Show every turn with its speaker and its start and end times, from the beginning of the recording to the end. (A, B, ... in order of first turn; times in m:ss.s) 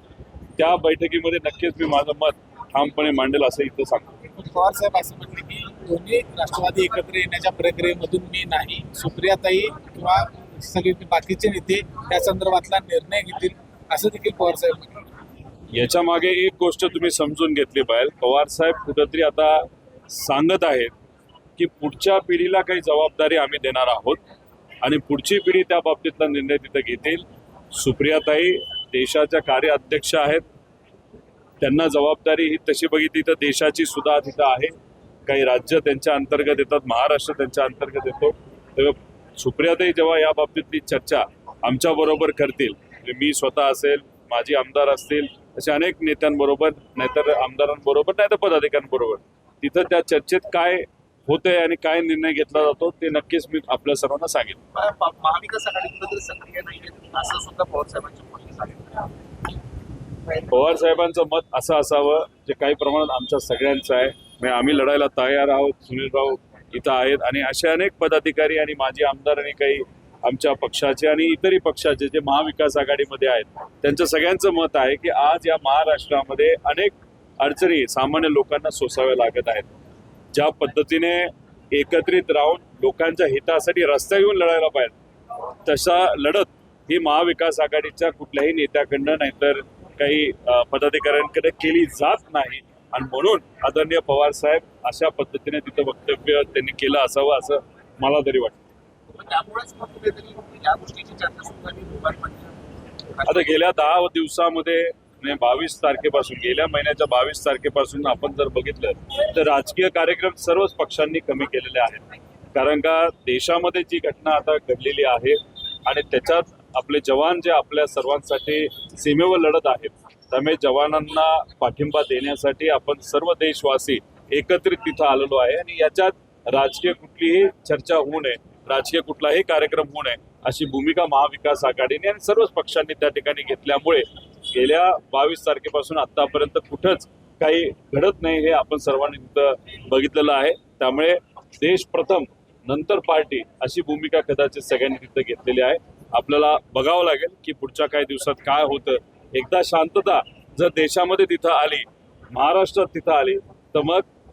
0:00.6-0:04.1 A
0:04.4-0:15.0 B
0:15.7-0:20.9 A
0:21.6-0:24.2 A
0:24.8-0:30.4 A
0:31.6-0:34.7 A
0:35.3-0:54.6 A
0:54.7-0:59.1 C
1:00.5-1:19.7 A
1:20.3-1:24.9 A
1:25.6-1:38.6 A
1:39.2-1:42.5 C
1:43.2-1:43.6 C
1:43.2-1:52.0 A
1:52.5-2:34.1 A